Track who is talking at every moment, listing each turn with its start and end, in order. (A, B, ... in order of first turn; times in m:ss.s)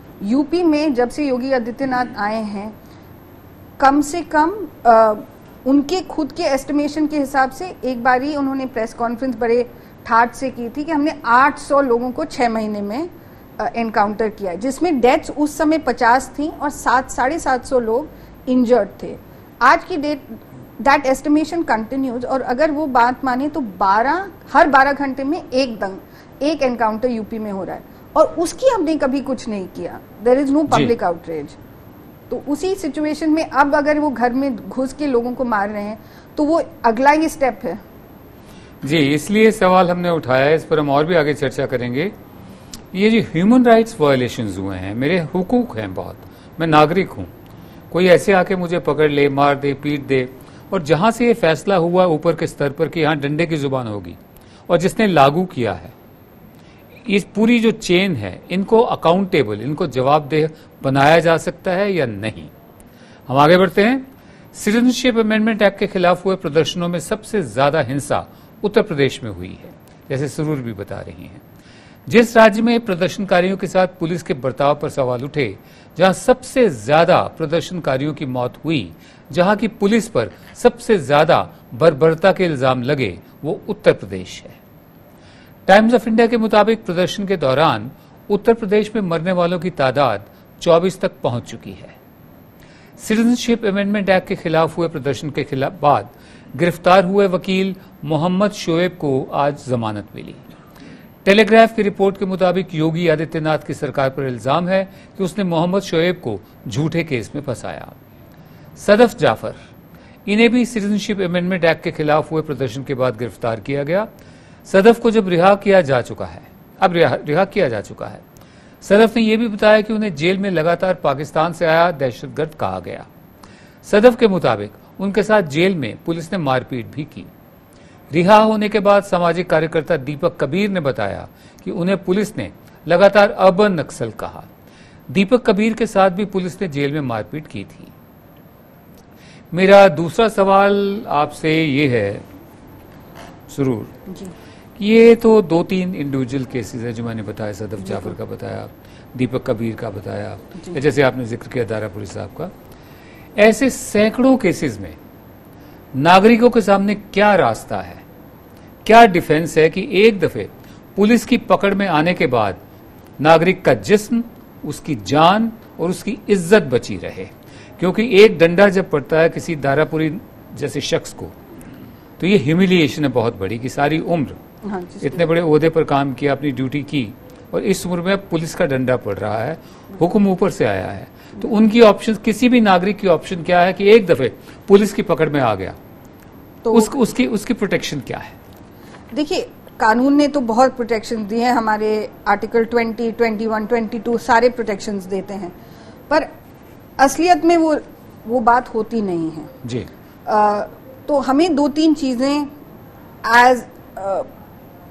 0:00.2-0:02.7 A
0:03.8-0:13.1 A
0:13.6-0:31.6 A
0:32.3-0:37.8 A
0:38.8-0:42.1 B
0:42.9-0:47.3 B
0:47.9-0:55.9 B
0:57.0-1:02.5 B
1:03.3-1:11.4 B
1:12.1-1:24.6 B
1:25.7-1:31.9 B
1:33.0-1:40.4 B
1:41.2-1:47.9 B
1:48.8-1:49.6 B
1:50.2-1:54.1 B
1:54.6-1:58.2 B
1:58.8-2:03.1 B
2:03.8-2:07.3 B
2:08.1-2:14.5 B
2:15.1-2:17.9 B
2:19.5-2:22.2 B
2:23.5-2:23.9 B
2:24.1-2:24.3 A
2:24.8-2:32.5 B
2:27.8-2:28.1 A
2:33.4-2:35.0 B
2:35.9-2:38.0 B
2:38.8-2:42.6 B
2:43.2-2:51.3 B
2:52.2-2:54.4 B
2:54.7-2:55.3 A
2:55.0-3:05.8 B
3:06.6-3:06.9 A
3:06.7-3:08.3 B
3:09.1-3:15.5 A
3:17.0-3:19.5 A
3:19.6-3:19.9 B
3:20.2-3:22.5 A
3:23.2-3:24.3 A